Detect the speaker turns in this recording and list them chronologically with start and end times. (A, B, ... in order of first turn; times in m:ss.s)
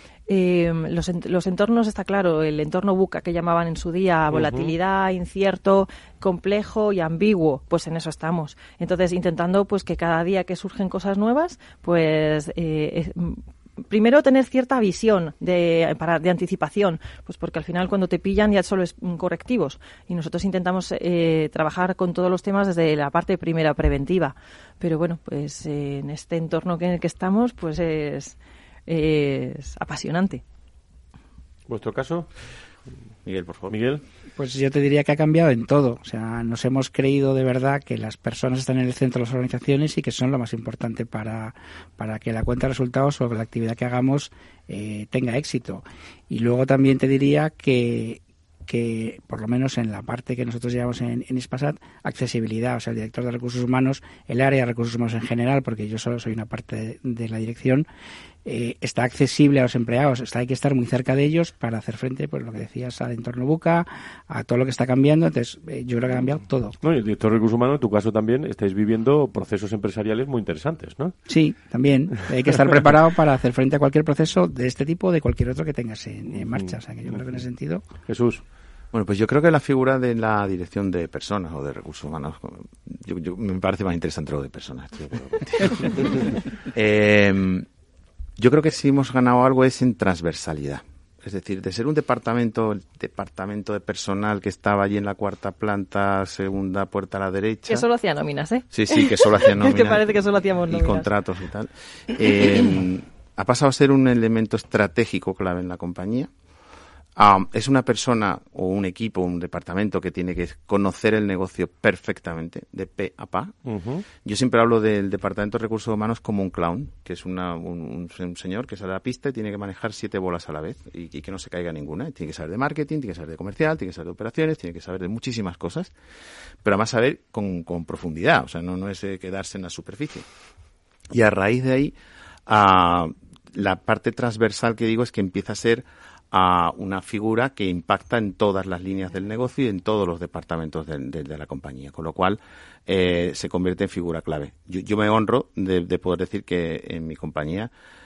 0:00.3-0:30.4 A
0:04.3-0:04.8 B
0:31.7-0:32.3 B
0:33.2-0:33.8 C
0:33.7-0:34.0 B
0:34.4-0:57.9 D
0:58.4-1:06.8 D
1:06.8-1:11.2 B
1:11.3-1:17.9 D
1:18.1-1:18.4 B
1:18.9-1:26.2 C
1:26.7-1:27.6 C
1:28.4-1:37.9 C
1:37.7-1:41.1 A
1:38.7-1:46.3 C
1:47.2-1:53.5 C
1:53.6-1:54.0 B
1:54.2-2:05.9 C
2:06.6-2:10.3 C
2:11.1-2:12.0 C
2:12.5-2:27.7 C